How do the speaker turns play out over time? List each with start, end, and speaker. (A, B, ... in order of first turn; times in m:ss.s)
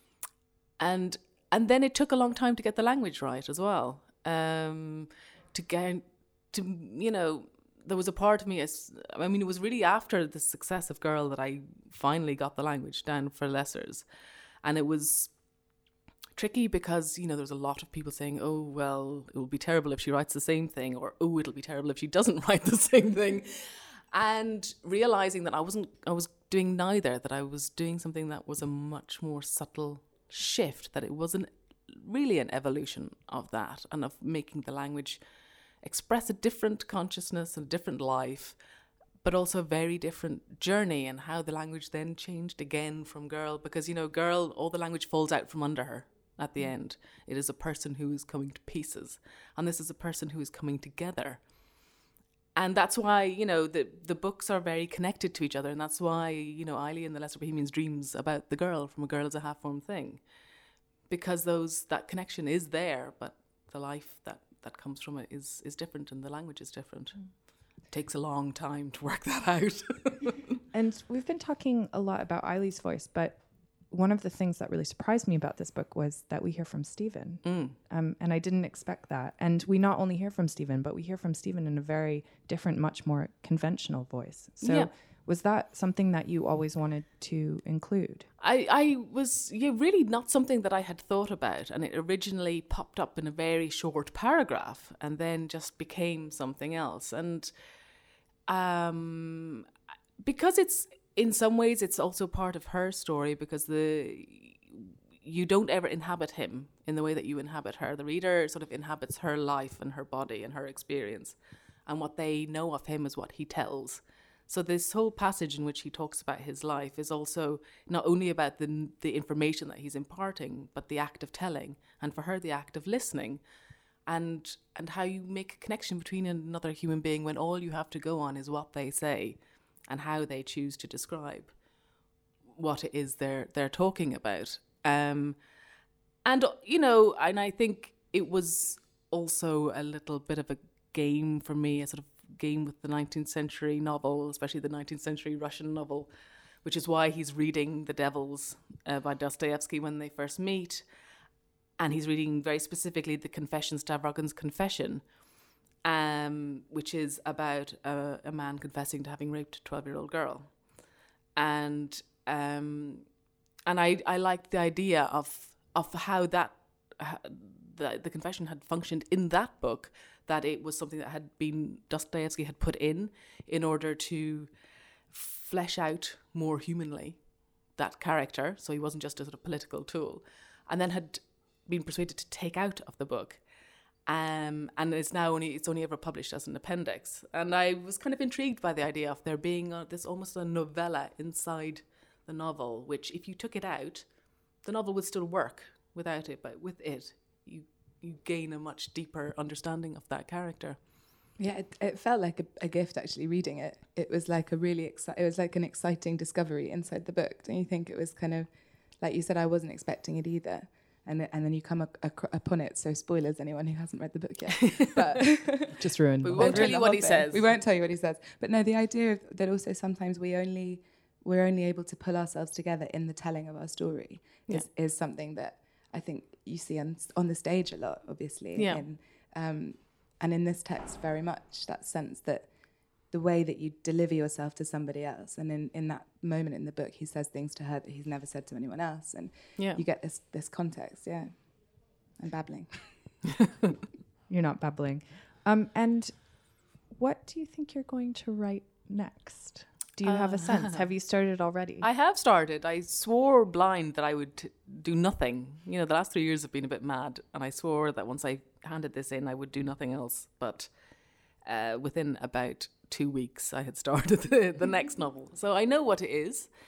0:00.8-0:14.0 A
0:14.6-0:15.3 A
0:16.3-0:35.2 A
0:35.8-0:38.6 A
0:39.2-0:51.4 A
0:52.6-1:00.2 A
1:01.1-1:10.4 A
1:10.7-1:28.3 B
1:17.4-1:17.8 A
1:24.6-1:24.9 A
1:28.4-1:37.5 A
1:38.5-1:39.6 A
1:40.2-2:03.4 A
2:04.1-2:11.5 A
2:12.6-2:15.4 A
2:16.2-2:26.1 A
2:26.6-2:30.8 A
2:31.8-2:35.0 A
2:35.8-2:40.6 A
2:41.4-2:43.1 A
2:43.6-2:54.5 A
2:55.1-2:57.2 A
2:57.8-3:03.4 A
3:04.0-3:14.1 A
3:14.6-3:20.8 A
3:21.4-3:28.5 C
3:29.0-3:35.8 C
3:34.8-3:35.1 A
3:35.7-3:36.8 B
3:36.2-3:37.6 A
3:36.3-3:52.5 C
3:48.6-3:48.8 A
3:53.1-4:01.6 C
3:59.6-3:59.8 A
4:02.2-4:02.9 C
4:04.3-4:11.9 B
4:10.0-4:10.9 A
4:11.8-4:20.7 A
4:21.4-4:26.5 A